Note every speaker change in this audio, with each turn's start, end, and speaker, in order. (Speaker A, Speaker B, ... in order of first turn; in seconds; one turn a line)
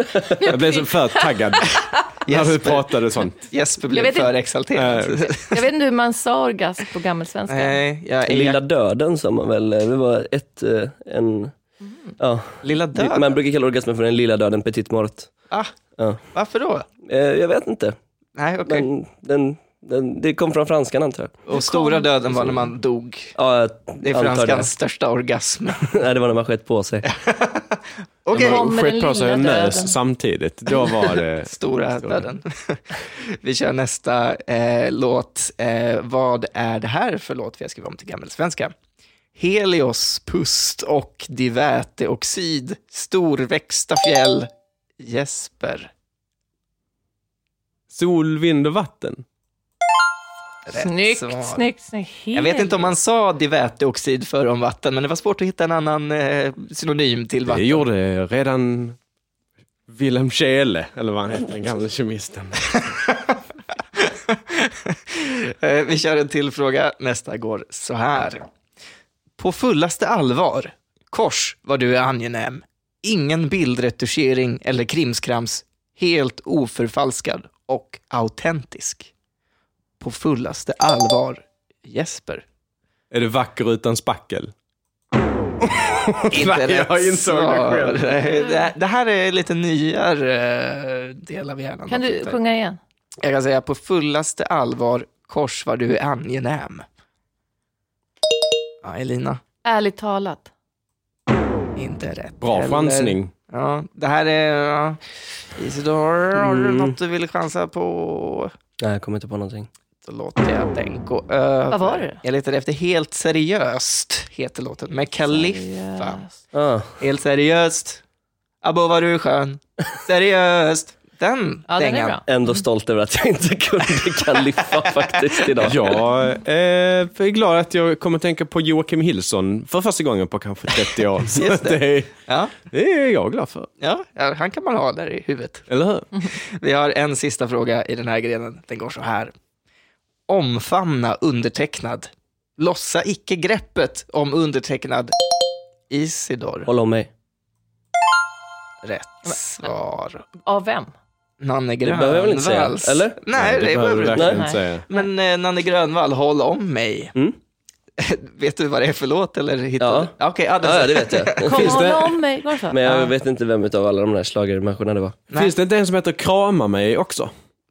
Speaker A: 0.3-1.8
Speaker B: 0.4-3.4
Speaker C: 2.3-5.6
Speaker A: 3.9-4.3
Speaker B: 4.7-5.3
Speaker A: 5.5-7.8
Speaker C: 7.5-8.6
Speaker D: 8.3-11.5
Speaker A: 11.8-12.1
Speaker D: 12.2-15.3
Speaker C: 12.6-13.4
Speaker C: 16.3-16.9
Speaker D: 17.1-18.0
Speaker C: 18.4-18.9
Speaker D: 18.7-21.4
Speaker C: 21.5-23.4
Speaker A: 21.5-22.1
Speaker D: 22.3-22.6
Speaker D: 23.4-24.7
Speaker C: 24.0-25.9
Speaker D: 25.8-27.1
Speaker C: 27.0-28.6
Speaker B: 28.3-32.3
Speaker A: 28.3-30.0
Speaker C: 31.4-38.7
Speaker C: 39.4-45.9
Speaker B: 47.9-49.2
Speaker C: 50.7-51.6
Speaker A: 50.7-52.9
Speaker C: 52.3-57.9
Speaker B: 57.5-59.0
Speaker B: 59.9-62.9
Speaker C: 62.9-63.4
Speaker C: 64.0-68.5
Speaker C: 69.4-79.1
Speaker C: 80.0-82.4
Speaker B: 83.1-84.5
Speaker B: 85.7-88.4
Speaker C: 86.3-92.4
Speaker A: 91.9-92.8
Speaker C: 93.2-96.9
Speaker C: 98.8-99.4
Speaker A: 99.6-100.5
Speaker C: 101.8-105.0
Speaker B: 102.4-103.3
Speaker C: 105.5-108.5
Speaker D: 106.3-107.0
Speaker D: 108.8-109.7
Speaker C: 110.0-116.2
Speaker A: 111.7-112.2
Speaker A: 115.3-116.4
Speaker D: 116.5-117.0
Speaker C: 117.0-118.0
Speaker C: 118.6-122.2
Speaker A: 121.7-122.6
Speaker D: 122.3-126.0
Speaker B: 125.6-133.7
Speaker C: 131.3-132.5
Speaker C: 133.8-139.3
Speaker B: 135.7-136.1
Speaker C: 140.3-145.1
Speaker C: 145.9-146.7
Speaker D: 146.7-147.1
Speaker C: 148.8-150.3
Speaker A: 150.4-150.9
Speaker C: 151.4-157.2
Speaker D: 151.8-153.2
Speaker B: 153.3-154.8
Speaker D: 154.1-154.5
Speaker A: 154.4-155.1
Speaker C: 158.0-161.7
Speaker D: 159.8-161.8
Speaker A: 161.4-162.8
Speaker B: 161.6-162.2
Speaker D: 162.7-165.2
Speaker C: 162.8-163.1
Speaker B: 165.3-167.3